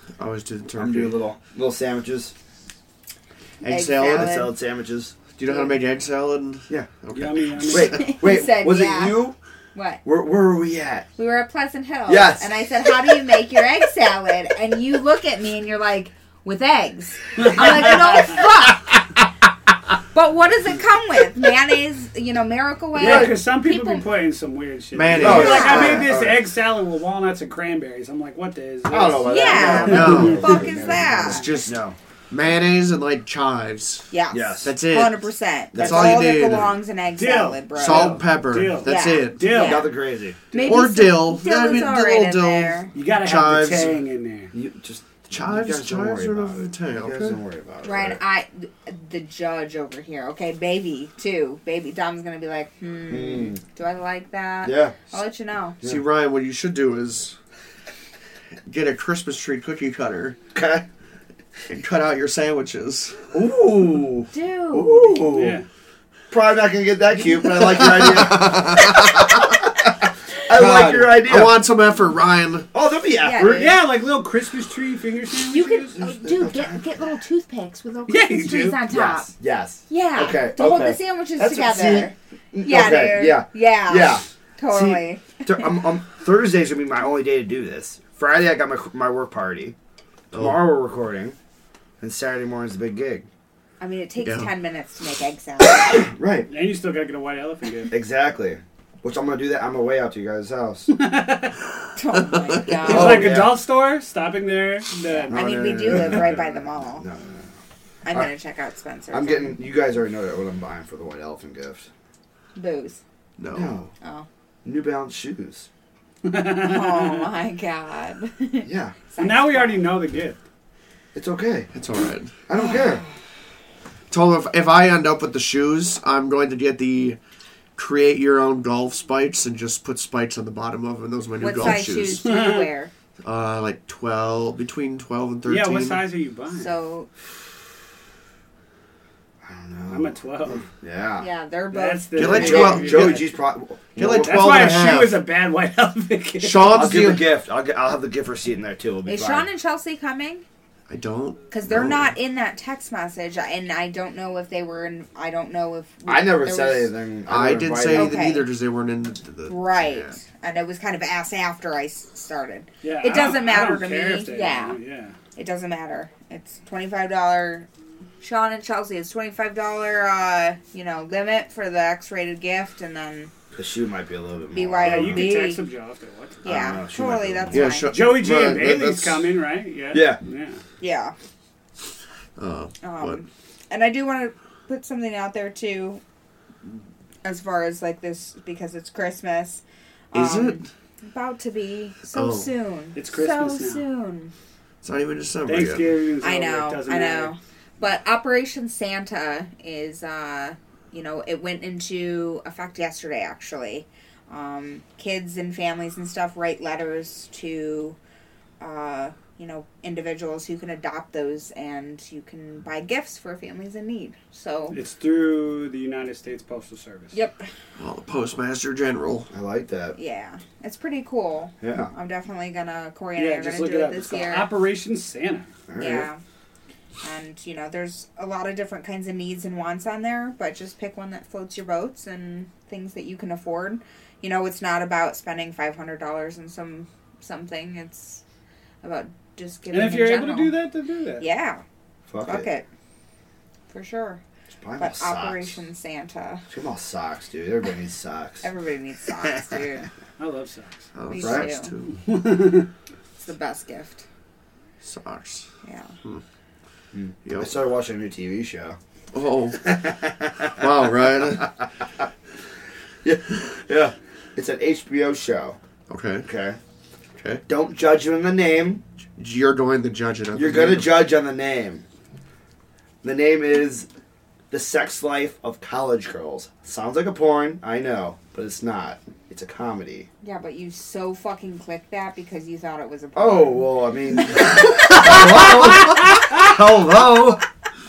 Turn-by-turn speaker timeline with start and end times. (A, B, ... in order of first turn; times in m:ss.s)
0:00.2-0:01.2 A
0:00.8-0:02.3 B
0:03.6-0:04.5 A
0:03.6-0:04.5 C
0:03.9-0:05.2 B
0:05.4-0:08.1 A
0:07.1-0:08.0 D
0:07.7-0:09.4 B
0:07.9-0:10.0 C
0:10.0-0:11.1 B
0:11.2-0:18.9 C
0:12.1-0:12.5 B
0:17.4-0:18.2 D
0:20.1-0:24.0 C
0:23.0-0:30.7 D
0:23.0-0:23.3 B
0:24.9-0:26.1 A
0:25.2-0:26.4 B
0:25.2-0:26.1 C
0:28.9-0:32.0 B
0:29.2-0:31.5 C
0:29.8-0:31.8 A
0:32.3-0:34.1 A
0:34.1-0:38.2 C
0:34.3-0:34.7 B
0:34.6-0:35.2 A
0:35.7-0:36.6 B
0:35.7-0:36.7 A
0:37.2-0:39.9 D
0:37.7-0:39.4 A
0:38.8-0:39.9 C
0:39.5-0:40.4 B
0:40.5-0:42.9 C
0:40.5-0:40.8 D
0:40.6-0:44.0 A
0:42.9-0:44.5 D
0:44.5-0:48.2 B
0:45.3-0:47.4 A
0:47.8-0:55.8 C
0:53.1-0:53.6 B
0:54.6-0:55.0 B
0:55.8-0:57.4 A
0:58.6-1:00.4 A
1:00.5-1:00.8 B
1:01.7-1:03.2 A
1:03.3-1:05.6 B
1:04.3-1:05.2 C
1:05.2-1:05.7 D
1:06.3-1:11.6 B
1:07.6-1:09.6 A
1:10.5-1:12.7 A
1:12.7-1:13.8 B
1:13.2-1:13.8 C
1:13.6-1:16.0 D
1:15.4-1:19.3 C
1:16.0-1:16.8 B
1:18.1-1:18.8 D
1:18.9-1:29.8 B
1:19.9-1:25.6 C
1:30.3-1:31.4 B
1:30.3-1:30.6 A
1:32.0-1:33.3 B
1:33.8-1:36.1 C
1:34.2-1:34.5 A
1:35.9-1:36.5 B
1:36.5-1:37.9 D
1:37.9-1:40.9 B
1:40.9-1:41.6 D
1:42.0-1:43.4 C
1:42.1-1:42.7 A
1:42.8-1:43.6 B
1:42.8-1:45.4 D
1:45.0-1:47.0 C
1:45.3-1:47.5 B
1:48.0-1:49.6 C
1:49.1-1:51.9 B
1:52.6-1:53.0 C
1:53.4-1:53.8 A
1:53.5-1:53.9 B
1:54.0-1:54.2 C
1:54.6-1:55.7 B
1:56.2-1:57.3 D
1:56.5-1:59.8 C
1:58.6-1:59.0 B
1:59.2-2:00.4 D
2:01.1-2:01.7 B
2:01.7-2:02.3 A
2:02.5-2:03.0 B
2:04.1-2:07.2 A
2:07.8-2:12.2 A
2:11.4-2:12.9 C
2:12.2-2:12.7 D
2:13.2-2:16.0 A
2:15.4-2:16.7 D
2:16.5-2:17.1 C
2:19.4-2:21.3 B
2:19.9-2:20.6 D
2:21.2-2:22.8 C
2:21.7-2:23.2 D
2:22.1-2:23.2 A
2:22.2-2:24.8 B
2:24.0-2:25.2 A
2:24.0-2:26.9 D
2:26.4-2:27.3 A
2:26.7-2:29.5 B
2:29.0-2:30.4 C
2:30.9-2:32.1 A
2:31.5-2:36.9 C
2:36.0-2:38.2 B
2:37.3-2:40.1 A
2:37.9-2:38.5 C
2:39.5-2:44.8 C
2:42.8-2:45.2 D
2:45.4-2:47.7 C
2:48.2-2:53.3 C
2:53.5-2:55.3 B
2:54.5-2:55.6 C
2:54.8-2:56.4 D
2:56.4-2:57.9 C
2:56.4-2:57.7 B
2:57.5-2:59.2 A
2:57.9-3:00.6 D
2:59.9-3:00.2 B
3:00.8-3:01.1 C
3:02.4-3:03.2 A
3:02.8-3:06.0 C
3:07.2-3:14.3 C
3:10.1-3:10.7 A
3:12.1-3:12.5 A
3:13.0-3:13.8 D
3:14.8-3:15.9 A
3:15.4-3:17.3 D
3:16.2-3:28.0 C
3:28.6-3:34.8 C
3:34.7-3:37.1 D
3:37.1-3:37.5 C
3:37.8-3:39.3 A
3:39.3-3:40.0 B
3:39.9-3:44.5 C
3:41.6-3:41.9 B
3:43.2-3:45.5 D
3:45.7-3:46.1 B
3:45.8-3:46.2 C
3:47.0-3:58.2 C
3:58.8-4:00.6 C
3:59.7-4:01.2 D
4:01.2-4:01.6 C
4:02.1-4:02.4 B
4:02.2-4:02.7 C
4:03.7-4:04.2 C
4:04.5-4:05.6 B
4:04.8-4:06.4 C
4:06.5-4:08.5 B
4:08.4-4:09.9 C
4:10.2-4:10.9 D
4:10.9-4:11.9 A
4:11.1-4:11.7 C
4:11.2-4:11.5 B
4:11.9-4:12.7 D
4:13.2-4:14.0 C
4:14.8-4:15.4 A
4:15.6-4:15.9 C
4:16.9-4:18.8 B
4:17.2-4:17.5 A
4:19.1-4:19.7 A
4:19.6-4:20.6 B
4:20.5-4:21.5 A
4:23.0-4:25.6 B
4:25.9-4:26.3 A
4:26.2-4:26.6 B
4:27.5-4:28.8 B
4:29.2-4:31.0 A
4:30.3-4:31.8 B
4:33.0-4:33.9 B
4:34.5-4:40.1 B
4:40.2-4:43.7 C
4:43.1-4:47.4 B
4:44.4-4:46.5 D